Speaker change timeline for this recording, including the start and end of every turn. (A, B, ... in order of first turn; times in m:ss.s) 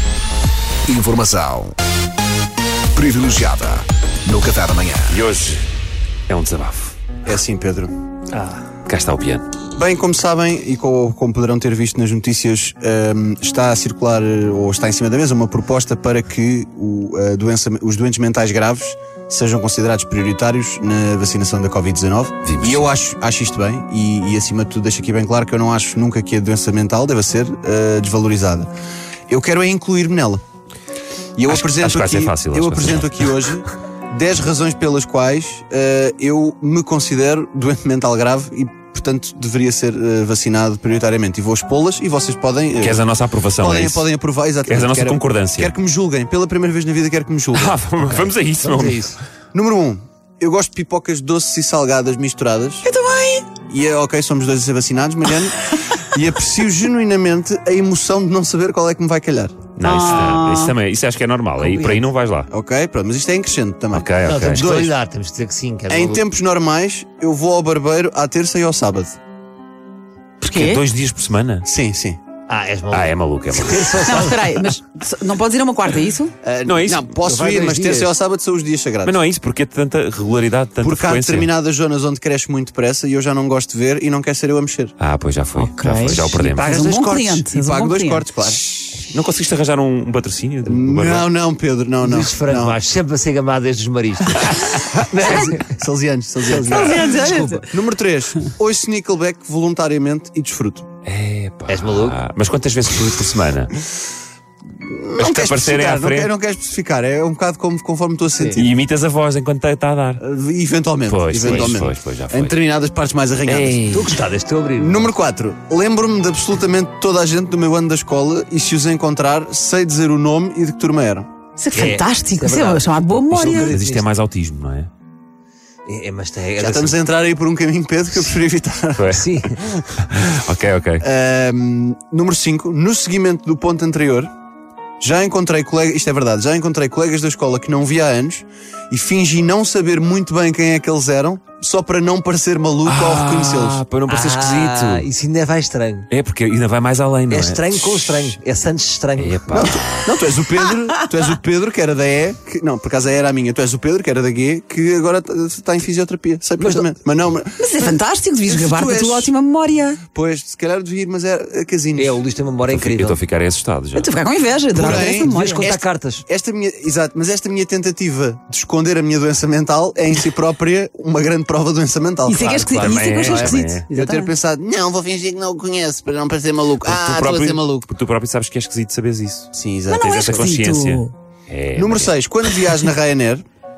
0:00.9-0:01.8 A
0:03.0-0:05.2 A
0:05.1-0:05.6 B
0:06.3-0:07.0 B
0:07.2-0:07.9 C
0:08.3-0:08.6 D
0:08.9-0:09.5 B
0:09.8-0:28.7 C
0:22.4-0:22.9 B
0:29.3-0:30.4 C
0:31.4-0:43.0 C
0:31.5-0:33.3 B
0:42.8-0:44.0 B
0:43.6-0:47.8 C
0:44.6-0:45.7 B
0:47.6-0:49.1 B
0:48.6-0:49.2 D
0:49.5-0:52.9 C
0:52.8-0:53.5 E
0:53.6-0:59.7 C
0:59.8-1:02.5 B
0:59.8-1:00.8 E
1:01.6-1:02.1 D
1:02.5-1:05.0 C
1:03.9-1:04.7 B
1:04.2-1:06.2 D
1:05.9-1:09.2 C
1:10.4-1:10.8 E
1:10.5-1:11.7 B
1:11.6-1:12.2 C
1:12.5-1:14.5 D
1:12.9-1:14.1 B
1:14.0-1:16.3 E
1:16.4-1:19.2 C
1:16.7-1:17.1 B
1:17.2-1:18.1 D
1:19.0-1:21.5 B
1:20.8-1:24.9 C
1:25.0-1:26.8 B
1:25.6-1:28.3 E
1:26.1-1:27.5 D
1:27.5-1:29.0 C
1:29.0-1:31.3 B
1:30.6-1:32.8 C
1:32.0-1:35.7 D
1:35.1-1:40.9 C
1:36.6-1:37.7 E
1:41.0-1:43.8 B
1:41.7-1:42.2 D
1:44.8-1:48.7 C
1:45.2-1:46.3 B
1:48.4-1:48.6 D
1:48.6-1:50.2 B
1:50.2-1:54.0 C
1:51.1-1:52.6 B
1:51.4-1:51.8 D
1:53.5-1:55.1 D
1:54.8-2:01.3 C
2:01.6-2:03.8 E
2:01.7-2:04.1 D
2:03.4-2:04.9 B
2:05.9-2:07.0 D
2:06.6-2:09.2 C
2:09.0-2:09.3 B
2:09.1-2:09.8 D
2:09.9-2:11.0 B
2:11.0-2:14.3 C
2:15.0-2:23.8 C
2:22.8-2:25.1 B
2:24.1-2:26.1 D
2:26.1-2:28.3 B
2:27.3-2:29.6 D
2:29.2-2:30.1 B
2:29.5-2:37.9 C
2:36.6-2:36.9 D
2:37.6-2:40.0 E
2:38.4-2:39.3 C
2:40.0-2:42.2 C
2:42.0-2:43.2 D
2:42.7-2:44.1 B
2:43.9-2:45.6 E
2:44.8-2:57.9 C
2:44.8-2:46.2 D
2:52.3-2:54.3 E
2:52.4-2:52.8 D
2:52.8-2:53.9 B
2:56.8-3:02.1 B
2:59.5-3:00.5 C
2:59.9-3:01.1 E
3:01.8-3:03.4 C